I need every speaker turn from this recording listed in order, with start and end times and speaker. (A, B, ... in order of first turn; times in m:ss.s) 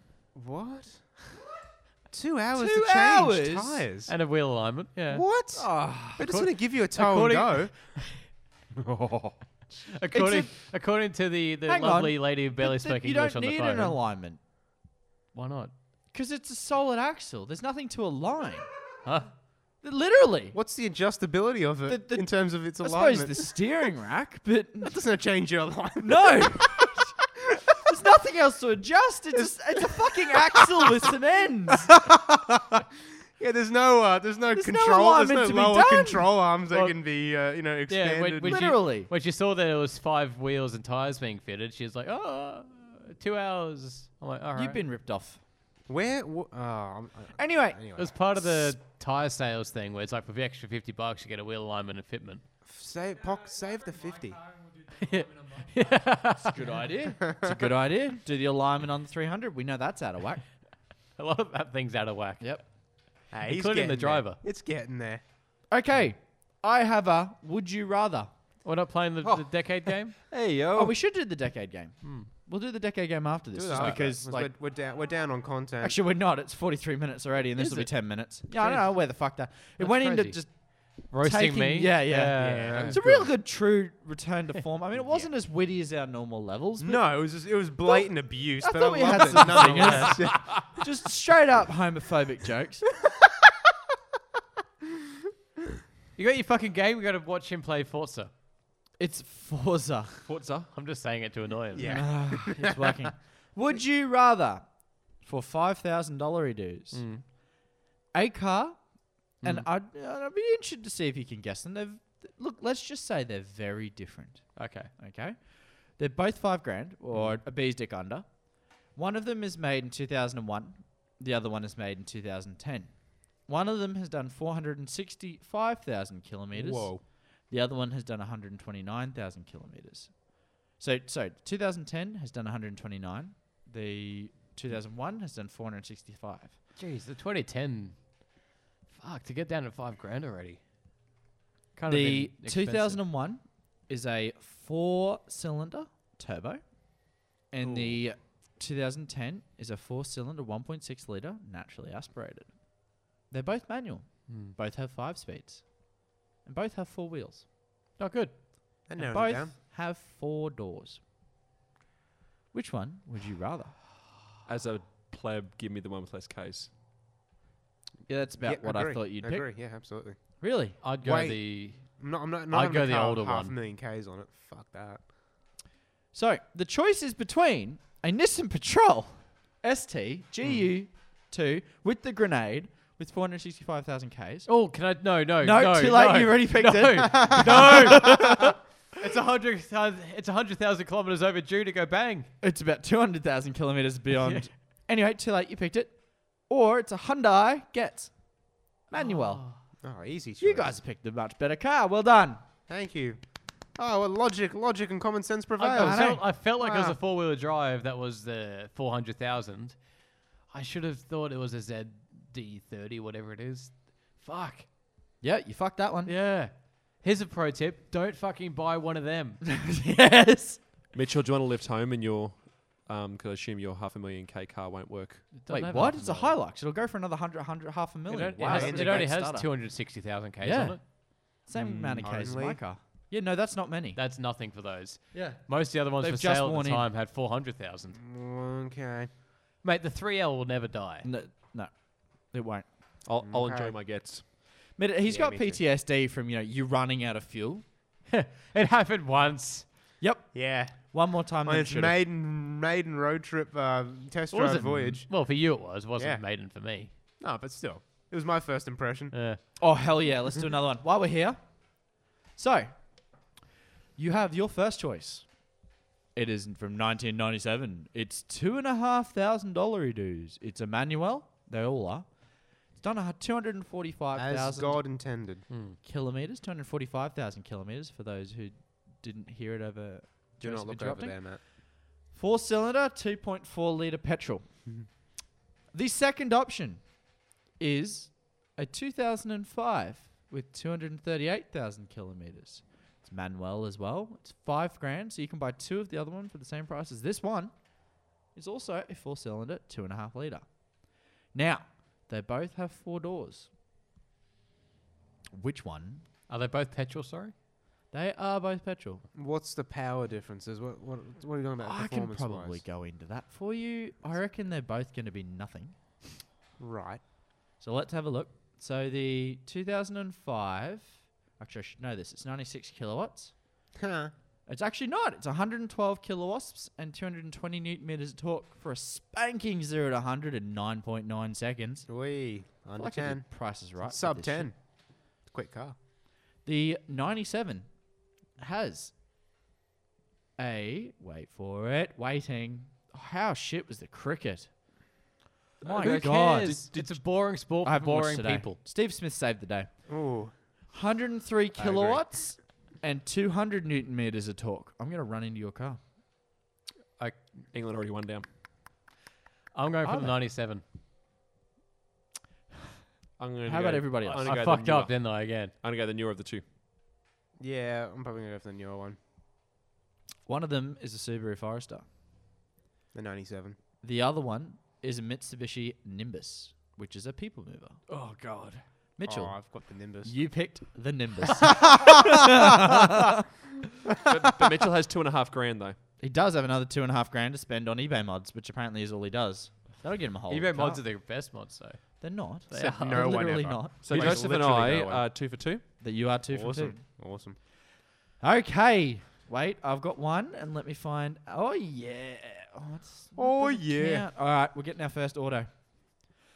0:00.3-0:01.1 A
0:02.1-0:04.1 A
0:02.5-0:03.8 B
0:04.1-0:05.2 C
0:05.1-0:07.8 A
0:05.6-0:06.2 B
0:06.2-0:08.2 C
0:08.8-0:09.4 D
0:09.9-0:14.0 C
0:10.1-0:10.5 B
0:11.6-0:14.4 B
0:15.3-0:15.7 C
0:16.1-0:18.7 B
0:19.8-0:20.6 B
0:20.5-0:23.5 A
0:21.9-0:24.9 B
0:24.8-0:27.0 A
0:26.0-0:27.1 B
0:27.8-0:31.9 B
0:29.3-0:30.6 A
0:31.9-0:32.8 A
0:33.4-0:38.7 A
0:34.5-0:36.3 B
0:36.7-0:37.1 C
0:37.9-0:44.8 C
0:38.4-0:39.1 B
0:44.6-0:45.4 B
0:45.9-0:48.7 A
0:47.4-0:47.8 B
0:48.0-0:52.4 C
0:52.6-0:54.4 A
0:54.9-0:56.8 C
0:56.3-1:00.4 B
0:57.2-0:57.6 A
1:01.2-1:02.6 C
1:03.3-1:04.4 C
1:03.3-1:05.2 A
1:05.7-1:08.3 B
1:08.6-1:10.1 C
1:09.2-1:10.9 D
1:10.7-1:14.5 B
1:12.0-1:12.3 C
1:13.5-1:16.0 A
1:13.7-1:14.0 C
1:15.8-1:27.2 B
1:17.6-1:23.0 C
1:22.3-1:23.3 A
1:26.8-1:30.8 A
1:28.6-1:32.9 B
1:29.2-1:30.3 C
1:36.2-1:38.3 C
1:39.0-1:40.2 B
1:40.3-1:40.7 D
1:40.7-1:42.1 C
1:41.7-1:42.9 A
1:41.8-1:47.1 B
1:46.9-1:47.2 C
1:48.1-2:16.6 B
1:49.4-1:49.7 C
1:54.6-1:54.9 C
2:06.5-2:07.0 A
2:16.8-2:18.4 C
2:18.9-2:20.6 C
2:21.7-2:23.0 C
2:21.9-2:37.4 B
2:27.6-2:28.0 D
2:34.3-2:34.5 C
2:38.0-2:38.3 C
2:38.9-2:39.5 A
2:39.0-2:41.0 B
2:42.5-2:43.8 B
2:44.4-2:46.7 D
2:48.1-2:49.5 B
2:48.4-2:50.2 A
2:50.4-2:50.8 B
2:50.8-2:51.8 C
2:51.0-2:55.0 A
2:52.5-2:53.5 C
2:56.1-3:04.5 B
3:04.5-3:12.3 C
3:05.4-3:08.5 B
3:07.2-3:08.2 A
3:12.4-3:18.2 B
3:14.1-3:14.5 C
3:18.9-3:19.4 B
3:18.9-3:19.6 C
3:19.8-3:20.7 A
3:20.4-3:22.4 B
3:22.7-3:23.2 A
3:23.8-3:27.0 A
3:25.6-3:29.9 C
3:25.8-3:26.2 B
3:30.5-3:34.7 C
3:35.2-3:36.1 B
3:36.0-3:39.4 C
3:39.4-3:40.6 B
3:40.9-3:45.3 D
3:45.3-3:46.4 C
3:45.5-3:49.5 B
3:48.1-3:50.8 C
3:48.4-3:49.1 A
3:50.4-3:54.0 B
3:51.6-3:52.0 C
3:52.0-3:52.6 A
3:54.0-3:58.0 C
3:55.1-3:56.8 B
3:58.0-3:59.1 A
3:59.6-4:01.1 C
4:01.0-4:02.7 B
4:03.0-4:04.2 D
4:03.2-4:03.8 A
4:04.8-4:07.6 B
4:05.0-4:05.6 A
4:08.1-4:09.7 C
4:10.0-4:12.0 B
4:10.3-4:15.1 A
4:14.3-4:16.9 C
4:16.0-4:16.2 A
4:17.2-4:19.2 A
4:19.1-4:19.4 C
4:19.6-4:23.0 B
4:24.0-4:25.4 B
4:26.1-4:34.8 B
4:34.1-4:35.4 A
4:35.5-4:35.8 C
4:35.8-4:41.2 B
4:40.4-4:41.4 A
4:42.1-4:44.4 B
4:45.7-4:46.9 B
4:47.6-4:57.6 B
4:58.3-5:00.6 B
5:01.3-5:03.5 B
5:05.4-5:06.0 B
5:06.3-5:07.3 C
5:07.9-5:09.0 B
5:09.1-5:12.6 A
5:11.6-5:15.7 B
5:16.6-5:17.0 A
5:17.6-5:23.3 B
5:23.7-5:24.1 A
5:24.5-5:31.9 B
5:31.9-5:34.6 A
5:32.7-5:34.5 B
5:35.2-5:35.8 A
5:36.4-5:37.7 B
5:38.4-5:38.9 B
5:40.4-5:44.5 B
5:45.6-5:46.8 B
5:45.6-5:46.9 D
5:45.7-5:48.6 C
5:47.4-5:49.7 B
5:49.9-5:50.3 A
5:50.7-5:55.8 B
5:51.6-5:52.0 A
5:57.5-5:58.2 D
5:59.5-6:00.6 C
5:59.8-6:00.1 B
6:03.2-6:06.4 D
6:03.4-6:04.3 B
6:04.1-6:05.5 C
6:07.4-6:09.0 A
6:10.2-6:11.8 B
6:12.9-6:13.6 A
6:13.8-6:19.4 B
6:19.0-6:20.2 A
6:20.0-6:23.2 B
6:21.6-6:21.9 A
6:24.0-6:25.8 D
6:26.0-6:30.8 B
6:30.3-6:33.4 C
6:32.0-6:34.3 B
6:32.5-6:35.1 A
6:33.8-6:35.6 D
6:35.8-6:36.8 B
6:36.3-6:37.4 A
6:38.2-6:46.0 B
6:43.2-6:44.1 A